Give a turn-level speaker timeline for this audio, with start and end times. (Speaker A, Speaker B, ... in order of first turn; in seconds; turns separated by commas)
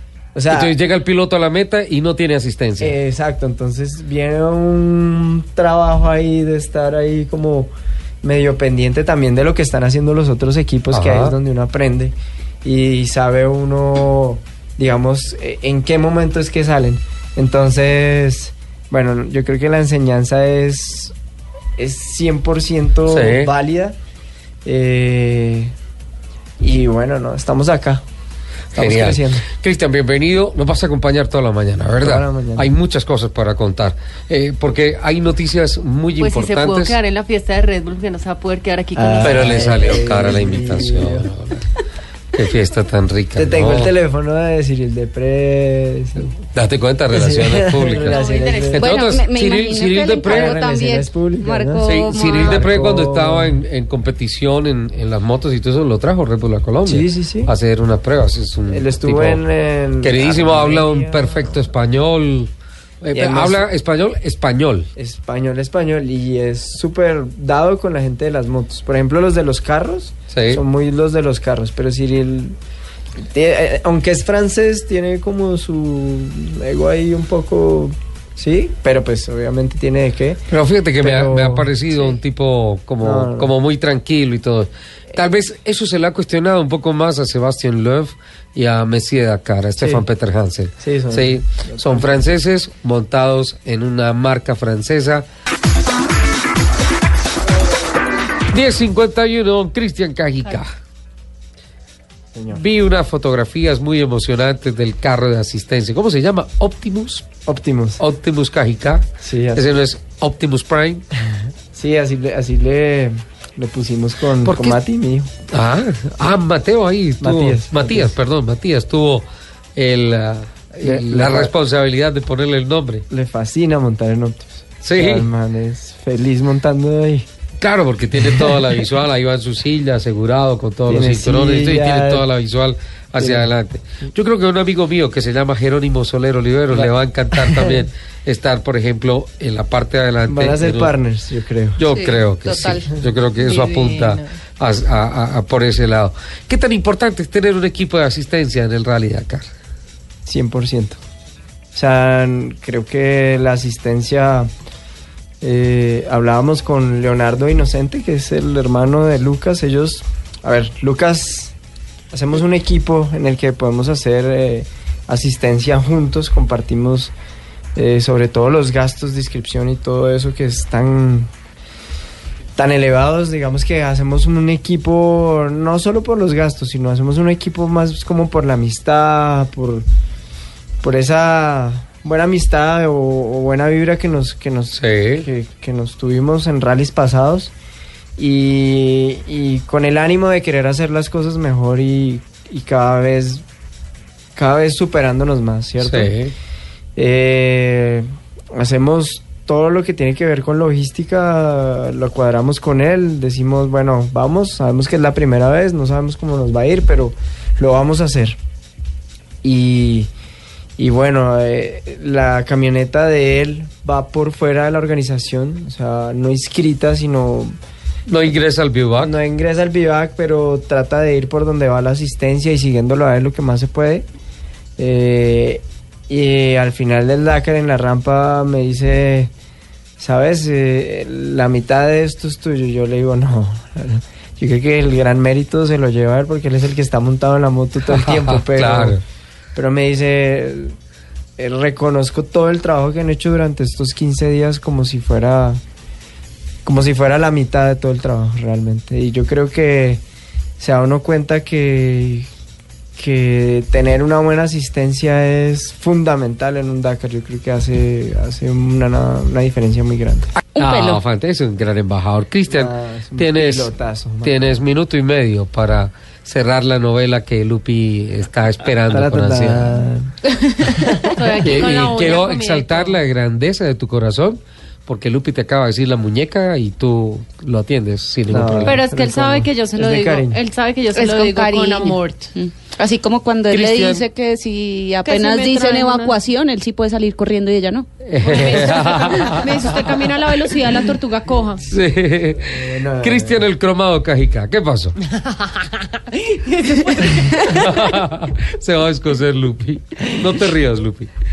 Speaker A: 0.3-0.8, Speaker B: 0.5-2.9, Speaker A: 2.8-7.7, Speaker A: 8.2-21.1, Speaker B: 10.9-11.3, Speaker A: 21.8-24.0, Speaker B: 23.1-23.5, Speaker A: 24.6-25.7, Speaker A: 26.6-28.0, Speaker A: 28.7-29.5, Speaker B: 28.7-37.0, Speaker A: 32.0-32.7, Speaker C: 36.2-39.8, Speaker A: 38.9-41.3, Speaker B: 39.2-41.7, Speaker B: 42.3-43.9, Speaker A: 43.4-46.3, Speaker B: 46.4-48.2, Speaker A: 47.1-48.9, Speaker C: 48.0-48.9, Speaker B: 48.7-50.6, Speaker D: 48.7-52.6, Speaker A: 50.2-53.6, Speaker B: 51.8-59.4, Speaker A: 56.8-57.5, Speaker A: 58.7-61.5, Speaker B: 60.0-62.5, Speaker B: 63.0-64.9, Speaker A: 63.1-63.7, Speaker A: 65.0-72.6, Speaker B: 70.3-70.6, Speaker A: 73.3-80.5, Speaker B: 80.5-95.2, Speaker A: 81.0-82.1, Speaker A: 83.0-83.5, Speaker A: 89.8-90.0, Speaker A: 90.8-92.3, Speaker B: 98.5-100.7, Speaker A: 102.3-102.6, Speaker B: 102.5-107.2, Speaker A: 107.5-108.0, Speaker B: 108.0-111.1, Speaker A: 109.2-109.7, Speaker A: 111.7-115.3, Speaker B: 114.5-114.8, Speaker B: 115.5-123.0, Speaker A: 117.2-118.2, Speaker A: 120.8-121.5, Speaker A: 123.1-127.3, Speaker B: 124.8-125.3, Speaker B: 127.6-140.9, Speaker A: 130.9-132.3, Speaker A: 133.2-133.5, Speaker A: 136.8-137.8, Speaker A: 140.3-141.8, Speaker B: 141.8-149.5, Speaker D: 141.9-143.0, Speaker C: 143.4-144.2, Speaker A: 150.3-151.0, Speaker A: 151.8-154.5, Speaker A: 155.4-161.6, Speaker A: 162.1-167.1, Speaker A: 167.8-171.3, Speaker A: 172.6-179.8, Speaker A: 180.8-187.5, Speaker B: 184.7-185.3, Speaker A: 188.2-193.4, Speaker A: 194.3-196.1, Speaker B: 195.8-196.3, Speaker A: 197.0-208.4, Speaker A: 209.4-210.1, Speaker A: 210.8-217.5, Speaker B: 218.1-219.1, Speaker A: 219.0-224.1, Speaker A: 224.8-229.3, Speaker A: 230.0-239.0, Speaker B: 237.9-239.0, Speaker A: 239.6-240.7, Speaker A: 241.4-245.6, Speaker A: 246.7-250.0, Speaker A: 250.6-252.3, Speaker A: 253.0-260.3, Speaker D: 260.6-261.0, Speaker B: 260.6-263.7, Speaker A: 262.5-264.6, Speaker B: 264.2-269.8, Speaker A: 268.9-271.1, Speaker D: 270.9-271.4, Speaker C: 271.1-273.0, Speaker B: 271.4-278.8, Speaker A: 278.3-280.4, Speaker C: 278.6-282.3, Speaker D: 280.9-287.9, Speaker B: 283.5-284.1, Speaker C: 285.0-286.2, Speaker B: 288.1-289.8, Speaker C: 288.2-291.6, Speaker D: 288.4-289.5, Speaker B: 291.7-295.0, Speaker A: 292.4-293.5, Speaker C: 295.0-297.9, Speaker B: 297.4-301.1